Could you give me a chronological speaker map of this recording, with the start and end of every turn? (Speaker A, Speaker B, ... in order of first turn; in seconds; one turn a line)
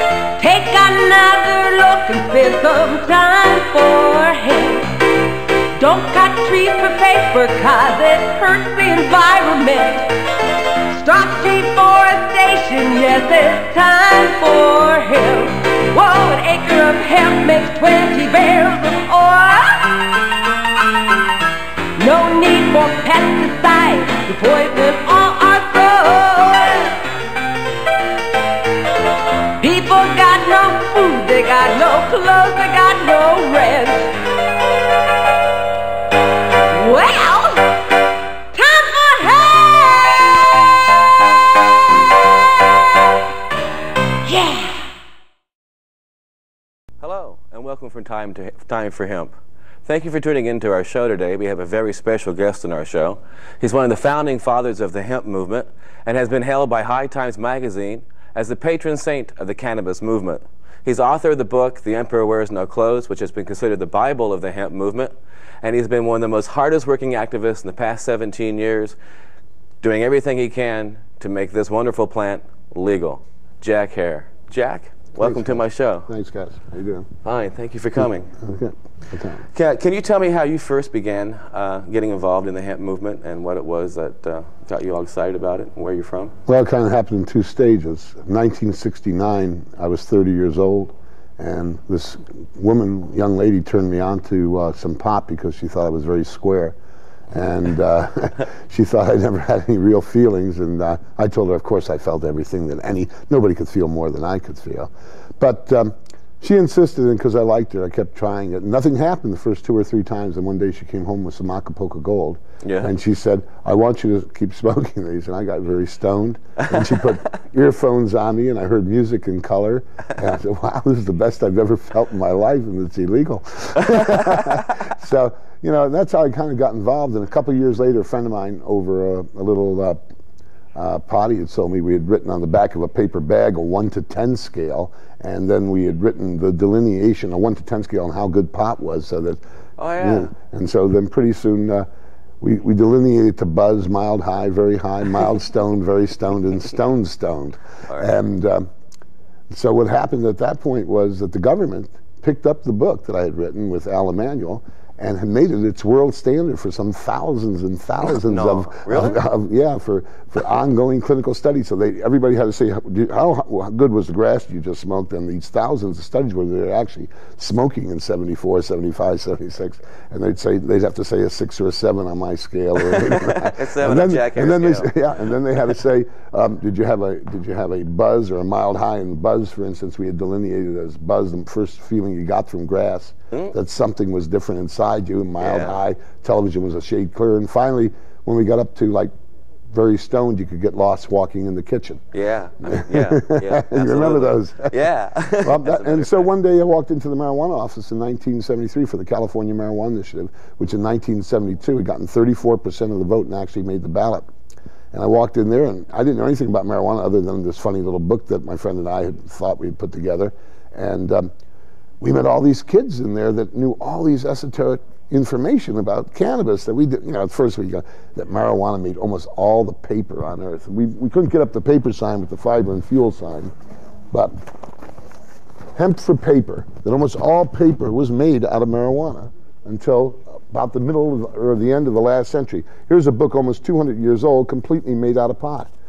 Speaker A: 0.4-5.0
Speaker A: 5.8-10.1
Speaker A: 10.9-20.1
Speaker A: 22.0-27.0
Speaker A: 29.6-34.1
Speaker A: 36.7-37.8
Speaker A: 38.5-40.1
Speaker A: 44.2-44.9
Speaker B: 47.0-49.3
Speaker B: 49.8-69.0
Speaker B: 69.8-76.1
Speaker C: 75.2-77.1
Speaker B: 77.2-78.3
Speaker C: 78.4-79.4
Speaker B: 79.5-86.3
Speaker C: 86.5-96.8
Speaker C: 97.3-130.0
Speaker B: 112.6-112.9
Speaker C: 130.7-139.4
Speaker B: 139.8-140.3
Speaker C: 140.0-141.8
Speaker C: 142.4-148.7
Speaker C: 149.5-189.1
Speaker B: 158.0-159.2
Speaker B: 172.9-174.9
Speaker B: 185.4-185.8
Speaker C: 189.7-192.0
Speaker B: 192.1-196.3
Speaker C: 192.7-194.8
Speaker C: 195.4-204.3
Speaker C: 204.9-211.3
Speaker C: 212.0-223.5
Speaker C: 225.8-235.7